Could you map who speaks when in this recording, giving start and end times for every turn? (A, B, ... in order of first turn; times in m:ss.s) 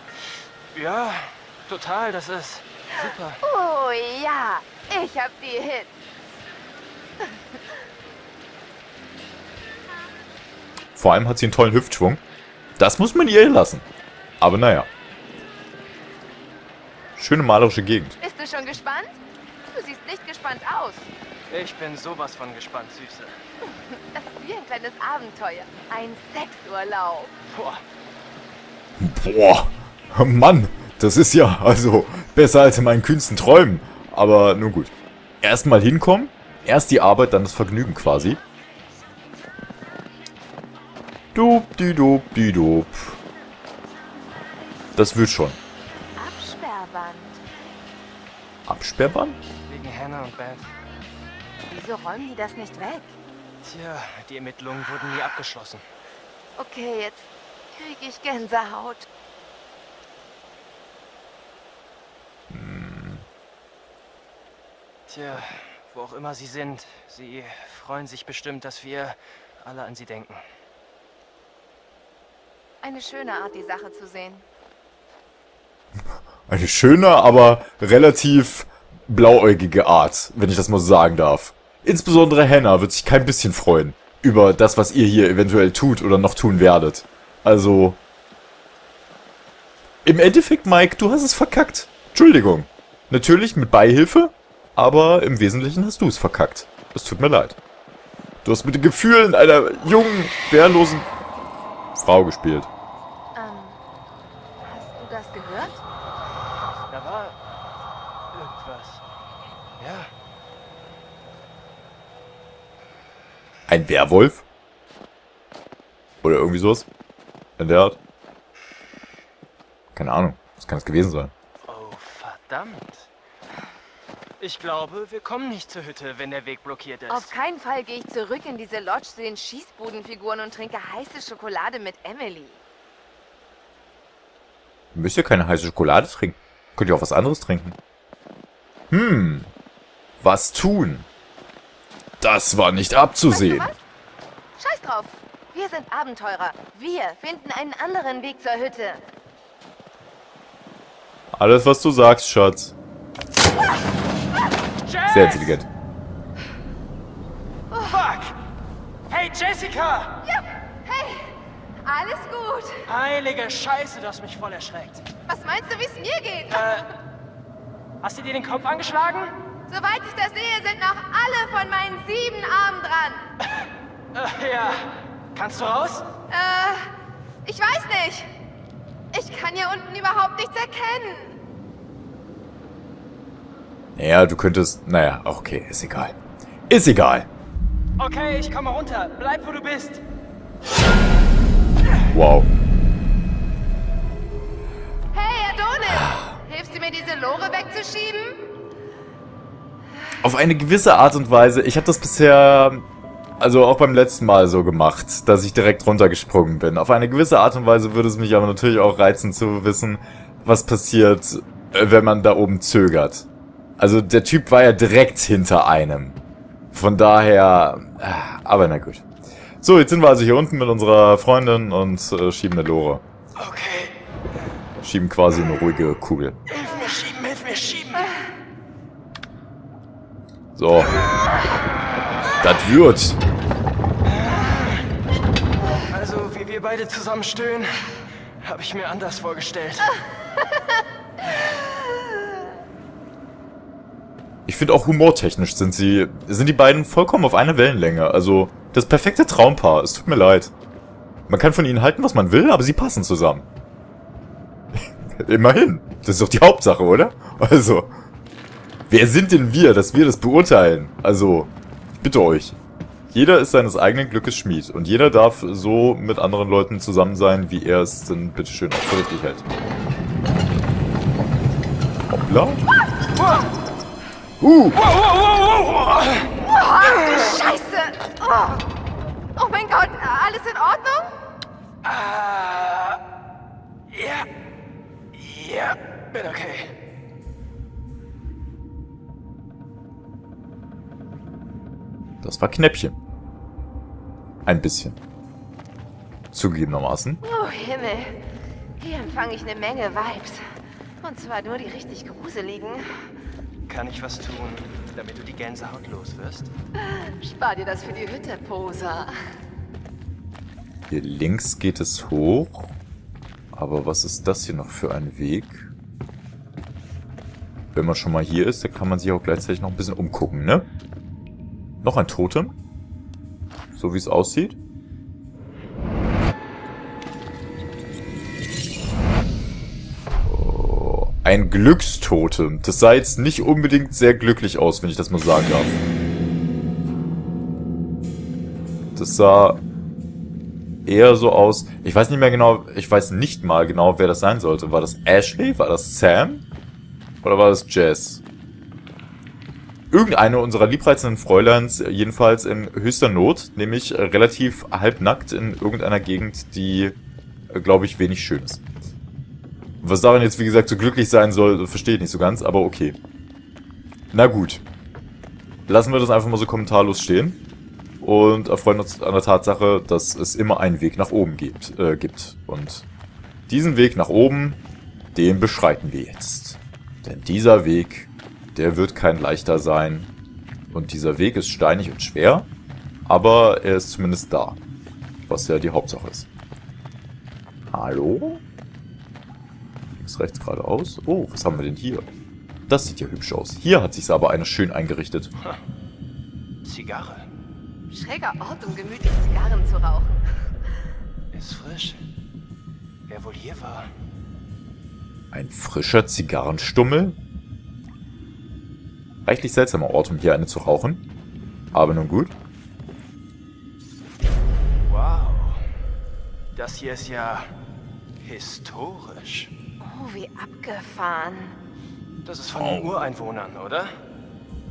0:00.7-0:03.4 A
0:03.0-0:05.9 B
0:07.2-0:07.6 B
0:10.9-0:12.2 C
0:12.8-0:13.9 C
0:14.4-0:14.9 C
0:17.2-0:18.2 C
0:18.2-0:19.2 B
0:19.7-0:21.1 B
0:21.5-0:23.4 A
0:23.6-0:27.3 B
0:27.5-0:27.8 A
0:29.0-0:38.4 C
0:41.3-0:43.2 C
0:45.0-0:45.6 C
0:46.2-0:47.4 B
0:48.7-0:49.4 C
0:49.7-0:50.7 A
0:51.6-0:53.2 B
0:53.6-0:55.8 A
0:56.6-0:59.1 B
1:02.5-1:03.2 C
1:05.1-1:10.4 A
1:12.8-1:14.4 B
1:16.5-1:28.0 C
1:30.0-1:37.6 C
1:38.4-1:41.1 C
1:42.0-1:42.7 C
1:43.3-1:43.8 B
1:44.6-1:45.8 B
1:46.9-1:47.4 A
1:48.3-1:49.0 A
1:49.8-1:50.1 A
1:53.7-1:54.4 C
1:56.2-1:56.9 C
1:57.6-1:58.0 C
1:59.9-2:01.3 C
2:01.6-2:03.1 A
2:04.4-2:07.3 A
2:07.1-2:12.6 B
2:14.9-2:17.8 C
2:18.9-2:19.5 C
2:20.2-2:21.1 C
2:22.2-2:23.7 C
2:23.3-2:23.8 B
2:24.6-2:29.0 B
2:31.3-2:32.7 C
2:34.8-2:35.6 A
2:35.1-2:35.7 C
2:37.7-2:38.0 B
2:37.8-2:38.4 A
2:39.1-2:40.2 A
2:40.2-2:41.3 B
2:41.8-2:42.9 B
2:42.8-2:45.0 A
2:45.3-2:46.7 B
2:46.5-2:47.0 A
2:48.0-2:49.4 A
2:49.7-2:53.2 B
2:53.6-2:56.0 A
2:56.3-2:56.9 B
2:57.4-2:58.3 B
2:59.1-3:01.4 B
3:04.0-3:06.2 C
3:06.7-3:07.3 C
3:08.0-3:10.0 A
3:12.1-3:12.5 C
3:15.1-3:18.4 B
3:15.9-3:16.3 C
3:20.2-3:22.8 C
3:23.4-3:33.3 C
3:33.8-3:36.2 C
3:36.7-3:39.0 C
3:39.6-3:43.0 C
3:43.4-3:44.5 A
3:44.8-3:46.4 C
3:46.5-3:48.2 A
3:50.5-3:50.9 C
3:52.4-3:53.2 C
3:54.0-3:54.9 A
3:55.9-4:00.0 A
4:04.4-4:10.5 C
4:11.3-4:13.5 C
4:14.7-4:17.9 C
4:18.9-4:22.6 C
4:23.1-4:29.4 C
4:32.1-4:32.6 C
4:34.4-4:34.8 C
4:34.8-4:36.4 A
4:36.4-4:38.6 B
4:39.4-4:41.1 B
4:41.8-4:43.0 A
4:43.9-4:44.3 A
4:45.1-4:46.7 A
4:52.2-4:53.0 C
4:54.4-4:55.0 C
4:56.3-4:57.2 C
4:57.2-4:58.2 B
4:58.8-5:00.4 B
5:01.0-5:03.1 B
5:03.7-5:06.5 A
5:06.8-5:09.1 B
5:10.9-5:12.7 C
5:13.5-5:15.7 C
5:17.7-5:20.7 C
5:21.8-5:22.5 C
5:23.7-5:24.6 C
5:30.2-5:35.8 C
5:39.0-5:39.6 C
5:40.8-5:46.4 C
5:47.2-5:48.2 C
5:49.9-5:57.0 C
5:57.5-5:58.6 C
5:59.8-6:03.0 C
6:04.1-6:04.6 C
6:05.7-6:07.4 C
6:08.0-6:12.9 C
6:13.5-6:14.6 C
6:15.1-6:20.1 C
6:20.7-6:22.5 C
6:23.0-6:24.6 C
6:25.3-6:26.3 C
6:27.7-6:28.4 C
6:30.0-6:32.1 C
6:32.7-6:35.3 C
6:36.6-6:37.3 A
6:37.9-6:40.2 B
6:41.3-6:42.0 A
6:43.1-6:43.8 A
6:45.3-6:47.2 C
6:49.2-6:51.0 C
6:51.7-6:52.3 C
6:54.9-6:55.6 A
6:56.5-6:57.4 A
6:58.2-6:59.5 A
6:59.8-7:01.6 B
7:02.2-7:03.9 A
7:02.6-7:03.0 C